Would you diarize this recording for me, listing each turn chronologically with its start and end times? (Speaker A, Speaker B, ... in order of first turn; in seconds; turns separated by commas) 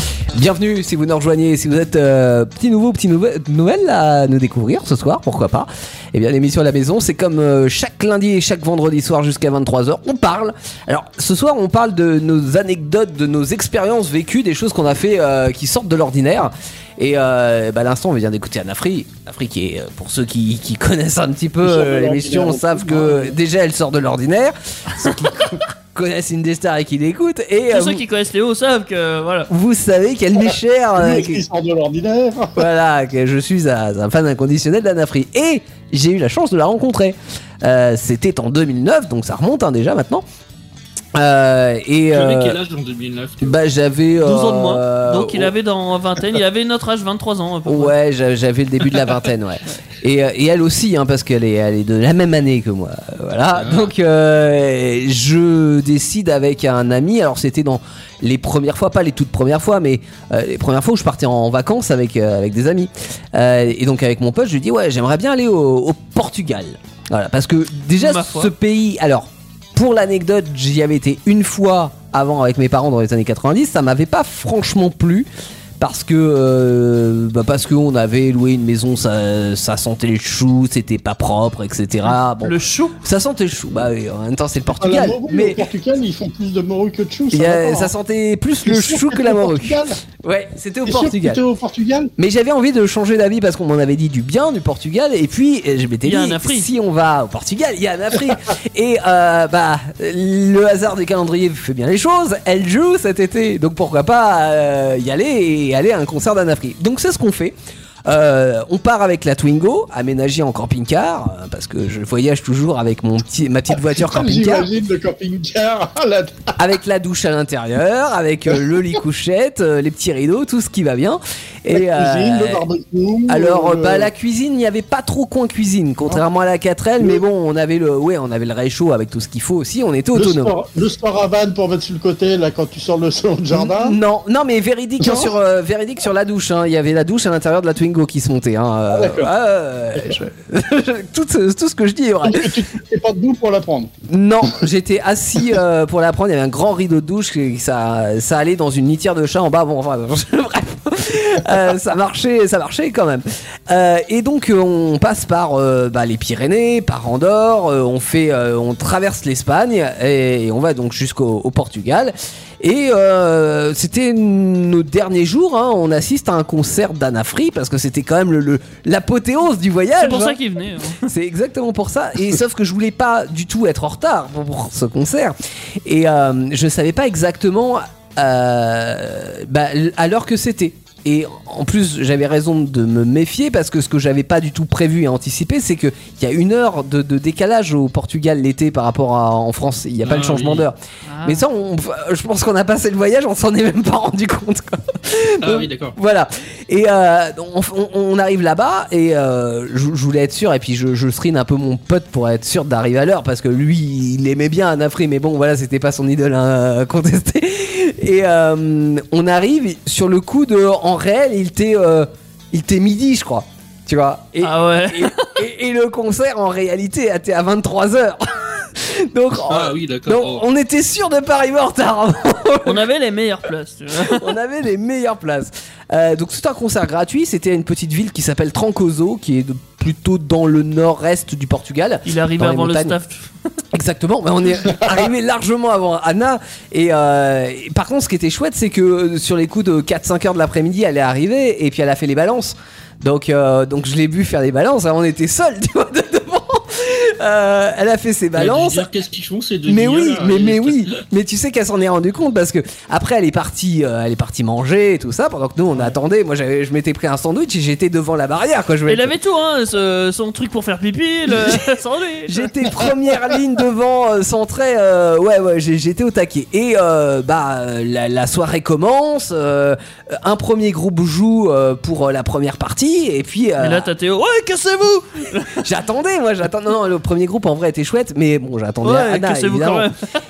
Speaker A: 0.3-28.0, Speaker B: 21.6-23.4, Speaker C: 27.7-29.5, Speaker A: 29.5-31.4, Speaker B: 31.0-32.7, Speaker A: 32.6-40.2, Speaker A: 41.1-42.6, Speaker D: 42.1-43.6, Speaker A: 43.4-45.5, Speaker C: 44.2-48.0, Speaker A: 47.6-75.3, Speaker D: 53.5-53.9, Speaker C: 68.0-68.5, Speaker A: 75.8-85.7, Speaker C: 82.1-83.0, Speaker B: 84.7-87.9, Speaker A: 87.3-91.4, Speaker B: 88.6-90.0, Speaker B: 90.9-92.1, Speaker A: 92.2-107.5, Speaker C: 96.0-96.7, Speaker A: 108.1-114.7, Speaker B: 113.9-116.6, Speaker A: 116.6-122.6, Speaker B: 121.7-124.1, Speaker A: 123.3-130.5, Speaker B: 130.1-134.0, Speaker A: 133.5-142.6, Speaker B: 135.0-135.3, Speaker B: 138.9-139.3, Speaker B: 142.2-143.9, Speaker A: 144.1-170.4, Speaker C: 170.0-171.1, Speaker A: 171.0-222.8, Speaker D: 190.0-190.7, Speaker C: 191.1-191.4, Speaker D: 195.4-196.0, Speaker C: 214.4-215.4, Speaker D: 219.5-220.4, Speaker C: 222.6-224.3, Speaker A: 223.9-233.0, Speaker C: 232.1-233.3, Speaker A: 233.7-248.9, Speaker D: 248.4-251.0, Speaker A: 249.7-259.1, Speaker C: 258.9-262.6, Speaker A: 261.3-261.8, Speaker A: 262.3-273.9, Speaker C: 273.6-275.6, Speaker A: 275.5-279.9, Speaker C: 278.8-280.2